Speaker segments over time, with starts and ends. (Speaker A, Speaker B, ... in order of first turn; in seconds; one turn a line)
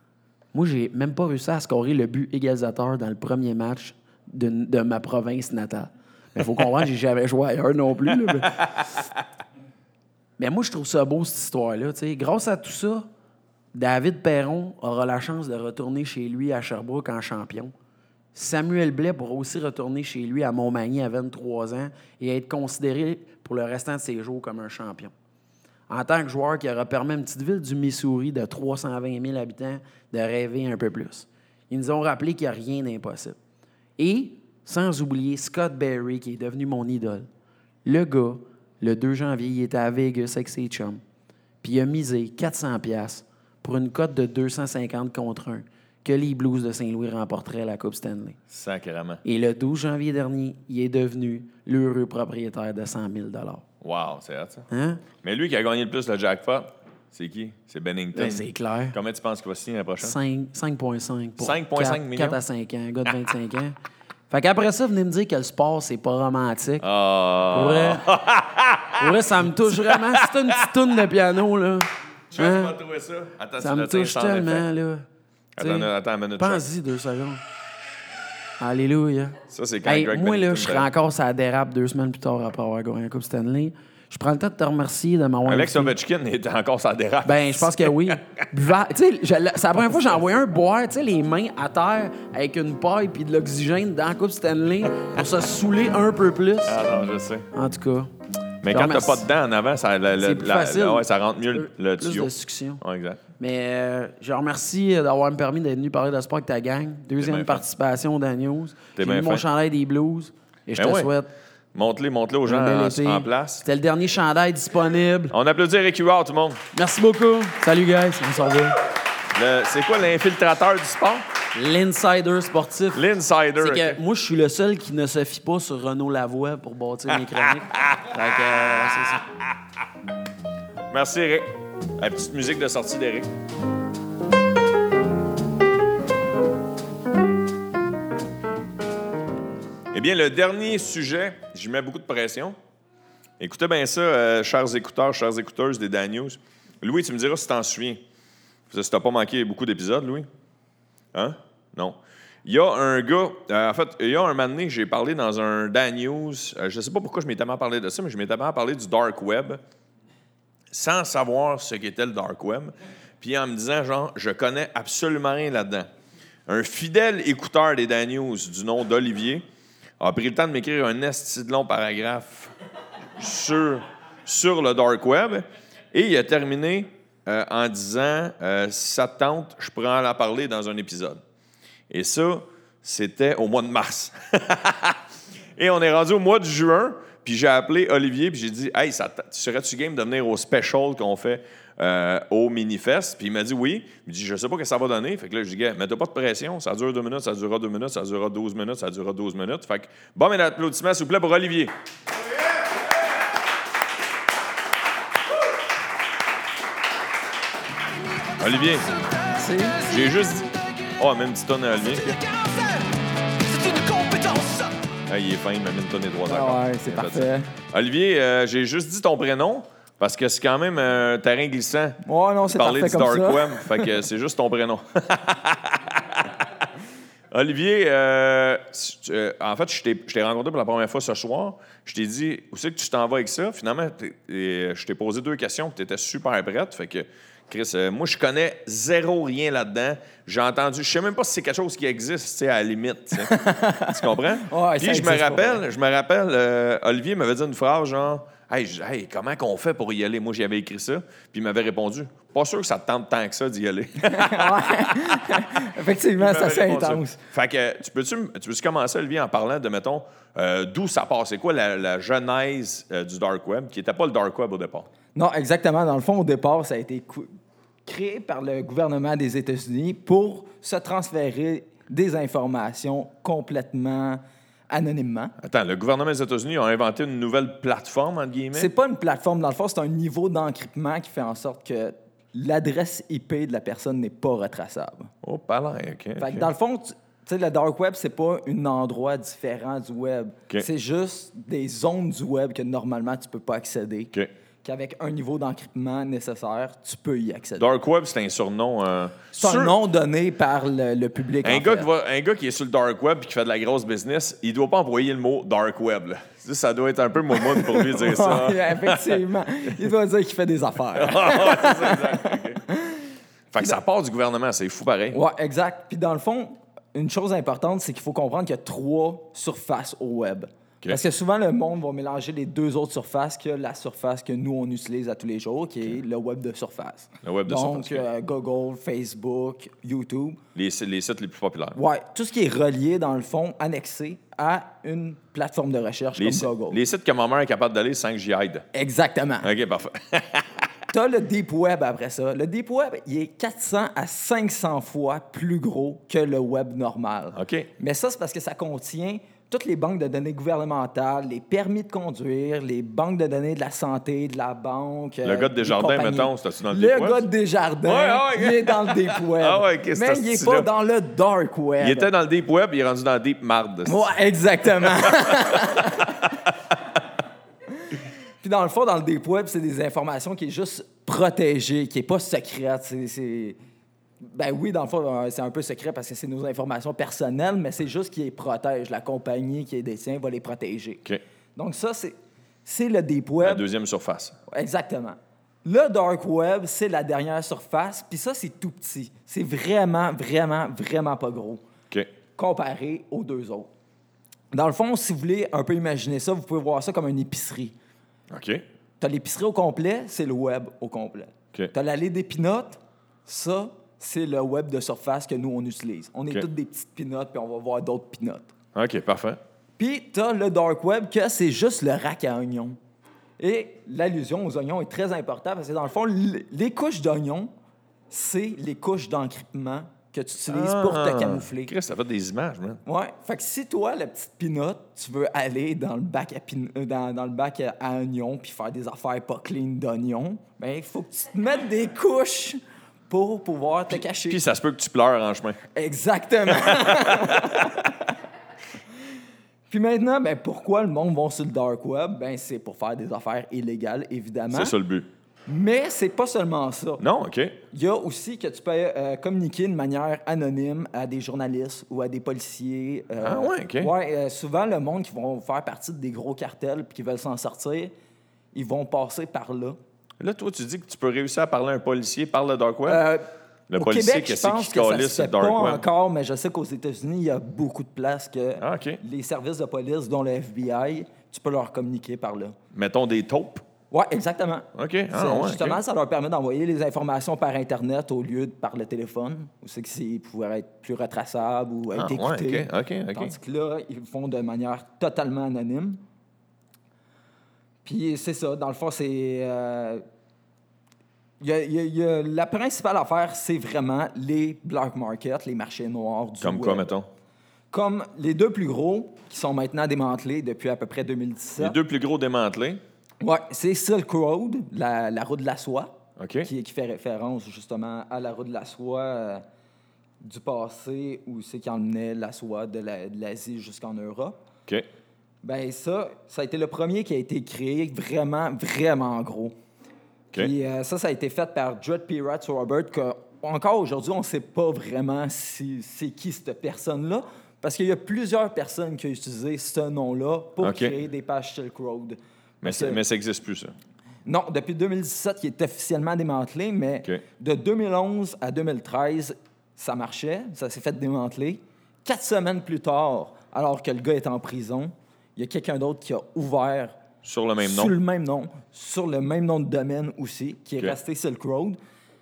Speaker A: 0.5-8.6
Speaker A: 10.4-13.1
Speaker A: 13.7-17.7
Speaker A: 18.3-25.1
Speaker A: 25.9-33.4
Speaker A: 34.0-37.3
Speaker A: 37.8-41.0
Speaker A: 41.6-48.4
Speaker B: 48.5-49.2
Speaker A: 49.2-53.6
Speaker B: 53.8-54.7
Speaker A: 54.7-55.0
Speaker B: 55.2-60.1
Speaker A: 58.1-59.0
Speaker A: 60.0-63.8
Speaker B: 61.4-62.4
Speaker A: 64.3-66.8
Speaker B: 66.8-70.7
Speaker A: 67.5-68.1
Speaker A: 69.0-72.7
Speaker B: 72.3-74.7
Speaker A: 73.6-75.0
Speaker B: 75.5-76.7
Speaker A: 75.6-77.4
Speaker A: 78.6-85.9
Speaker B: 79.5-80.9
Speaker B: 85.4-88.5
Speaker A: 87.2-96.8
Speaker B: 96.6-97.5
Speaker A: 97.5-98.1
Speaker B: 98.6-103.2
Speaker A: 98.7-99.2
Speaker A: 100.2-102.8
Speaker A: 103.4-111.3
Speaker B: 107.2-107.6
Speaker B: 109.0-109.4
Speaker B: 110.8-111.1
Speaker B: 111.7-113.7
Speaker A: 112.5-115.3
Speaker B: 115.3-116.6
Speaker A: 116.7-118.8
Speaker B: 119.3-121.2
Speaker A: 121.5-123.0
Speaker B: 122.9-124.0
Speaker A: 123.6-129.2
Speaker B: 127.1-129.2
Speaker B: 130.9-133.3
Speaker B: 139.9-142.6
Speaker B: 143.4-148.0
Speaker B: 148.7-150.3
Speaker B: 151.1-159.6
Speaker B: 160.7-165.9
Speaker B: 166.5-169.4
Speaker B: 170.0-172.5
Speaker B: 173.2-181.2
Speaker B: 181.9-185.0
Speaker B: 185.6-201.7
Speaker B: 208.4-209.0
Speaker C: 209.3-209.9
Speaker B: 209.8-212.4
Speaker C: 213.5-214.6
Speaker B: 215.1-222.0
Speaker C: 216.3-217.5
Speaker C: 222.0-223.9
Speaker B: 222.5-226.7
Speaker B: 227.3-255.7
Speaker C: 243.2-245.6
Speaker C: 254.1-257.2
Speaker B: 256.2-264.9
Speaker C: 265.1-275.3
Speaker B: 275.4-278.7
Speaker C: 278.5-285.1
Speaker B: 285.2-286.5
Speaker C: 286.2-294.1
Speaker C: 294.6-297.6
Speaker B: 297.6-299.8
Speaker C: 299.4-301.9
Speaker B: 301.4-309.2
Speaker C: 307.3-313.0
Speaker B: 310.9-312.6
Speaker B: 313.5-315.2
Speaker C: 315.1-330.4
Speaker B: 327.2-328.1
Speaker B: 330.5-331.8
Speaker C: 331.8-336.8
Speaker B: 336.1-338.6
Speaker C: 338.7-339.5
Speaker B: 339.4-340.7
Speaker C: 340.9-362.1
Speaker B: 347.3-347.7
Speaker B: 355.2-357.2
Speaker B: 357.8-360.7
Speaker B: 361.8-364.0
Speaker C: 363.9-366.2
Speaker B: 364.8-366.7
Speaker C: 368.4-373.6
Speaker C: 374.2-381.0
Speaker C: 381.6-383.6
Speaker B: 383.4-384.4
Speaker C: 384.5-391.6
Speaker C: 392.4-393.7
Speaker C: 394.5-397.7
Speaker B: 398.3-398.6
Speaker C: 399.0-408.5
Speaker B: 408.7-409.4
Speaker C: 409.8-412.8
Speaker C: 413.4-417.5
Speaker C: 418.1-421.7
Speaker B: 420.5-422.8
Speaker C: 422.8-434.4
Speaker B: 433.9-435.6
Speaker C: 435.7-438.1
Speaker B: 436.7-437.9
Speaker C: 439.7-444.7
Speaker B: 444.5-445.1
Speaker C: 445.5-447.0
Speaker B: 447.0-447.6
Speaker C: 447.7-457.9
Speaker B: 453.2-453.9
Speaker C: 458.5-459.8
Speaker B: 460.2-463.0
Speaker C: 462.9-472.6
Speaker B: 463.7-465.8
Speaker B: 468.6-469.0
Speaker B: 472.7-473.6
Speaker C: 473.9-486.0
Speaker B: 474.7-475.8
Speaker B: 481.9-483.3
Speaker C: 487.8-490.0
Speaker C: 491.4-496.9
Speaker B: 496.4-497.1
Speaker C: 497.7-501.8
Speaker B: 501.6-502.8
Speaker C: 503.2-509.4
Speaker B: 506.2-506.5
Speaker C: 510.2-514.4
Speaker C: 515.4-519.5
Speaker C: 520.3-533.0
Speaker B: 530.6-530.9
Speaker B: 532.6-533.7
Speaker C: 534.2-547.0
Speaker B: 547.2-547.9
Speaker C: 547.6-551.8